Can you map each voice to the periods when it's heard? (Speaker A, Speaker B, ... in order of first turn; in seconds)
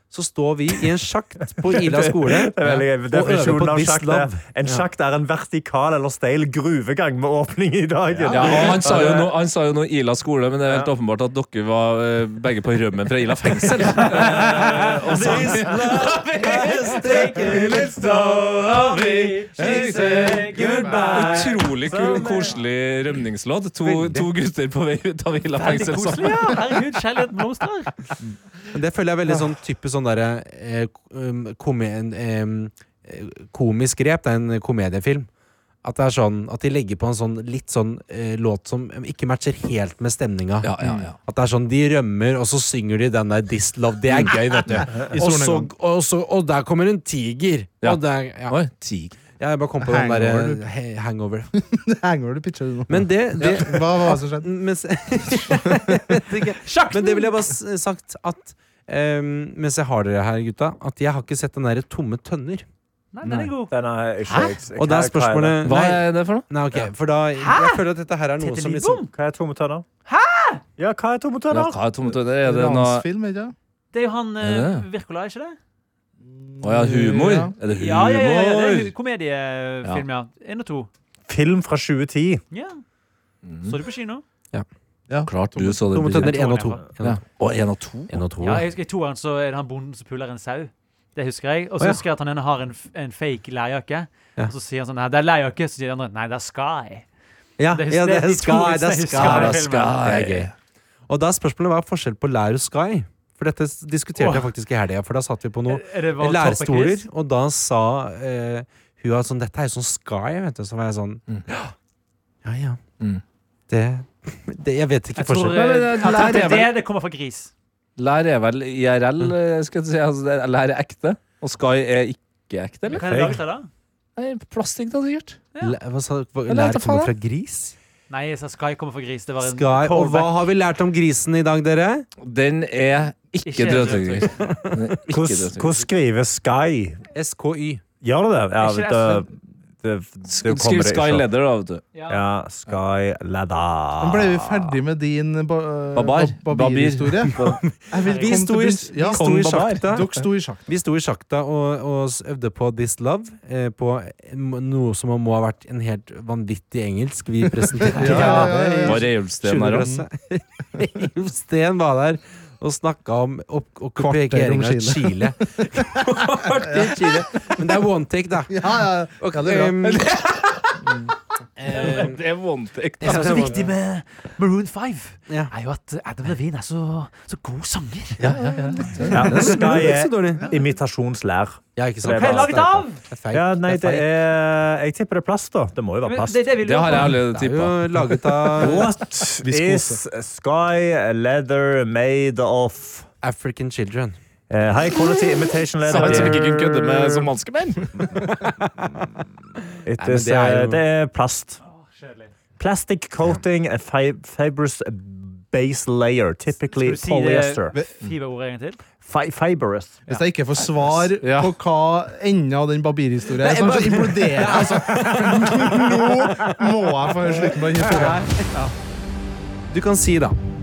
Speaker A: 0.1-4.8, 8.3-9.0, 15.1-18.0, 19.5-21.6, 23.8-24.3, 28.7-35.3, 35.8-48.6, 49.4-51.5, 52.9-62.6, 63.2-63.5, 64.8-69.0, 85.9-87.2, 88.1-88.7, 91.8-92.0, 97.6-100.5, 101.1-111.7, 112.4-112.8, 113.7-116.4, 125.6-127.7, 129.4-132.1, 133.7-134.8, 137.1-137.8, 147.4-170.0, 171.6-172.2, 173.0-173.6, 178.2-180.5, 181.8-184.1, 187.1-188.9, 193.2-194.2, 196.0-196.2, 200.0-200.8, 213.4-218.5, 219.7-220.4
Speaker B: 1.7-9.3, 15.4-16.1, 21.2-22.5, 63.7-65.6, 69.1-69.8, 70.8-71.8, 81.3-82.4, 123.0-123.3, 135.1-137.0, 138.0-141.2, 142.1-144.8, 179.1-182.5, 183.3-186.5, 188.6-193.1, 194.5-197.3, 199.8-201.6, 202.6-207.7, 209.0-210.1
Speaker C: 8.3-20.4, 21.1-26.5, 40.6-41.1, 44.1-44.9, 47.8-49.1, 65.6-66.5, 71.5-73.0, 74.4-74.8, 76.6-78.9, 83.4-83.8, 85.2-86.4, 87.0-88.1, 99.2-100.5, 115.5-116.7, 118.0-123.3, 124.2-125.4, 126.5-127.1, 132.2-135.8, 140.3-141.8, 145.9-147.6, 149.1-149.9, 158.2-159.9, 169.8-170.8, 171.7-173.6, 178.2-179.5, 186.6-188.1, 195.8-198.3, 211.2-211.5
Speaker D: 14.0-15.7, 16.6-17.7, 18.4-21.4, 25.6-27.9, 56.6-57.4, 63.1-63.7, 67.4-67.8, 68.4-69.1, 70.1-70.6, 73.9-75.6, 77.7-80.9, 82.5-82.8, 83.6-84.2, 86.2-86.8, 88.4-97.1, 97.7-100.0, 104.2-104.5, 105.7-107.0, 115.2-117.5, 122.9-123.7, 128.1-130.4, 133.5-134.5, 138.6-139.3, 141.9-142.2, 148.0-148.4, 171.7-172.0, 173.0-178.2, 182.1-183.0, 186.0-187.2, 201.6-202.3, 206.7-208.8
Speaker E: 44.9-45.7, 49.8-50.6, 51.7-54.5, 55.4-56.0, 72.0-73.5, 76.2-77.5, 85.1-85.9, 144.0-150.7, 157.7-159.1, 159.8-160.0, 164.0-167.1, 168.5-169.8, 188.6-190.0, 210.1-218.3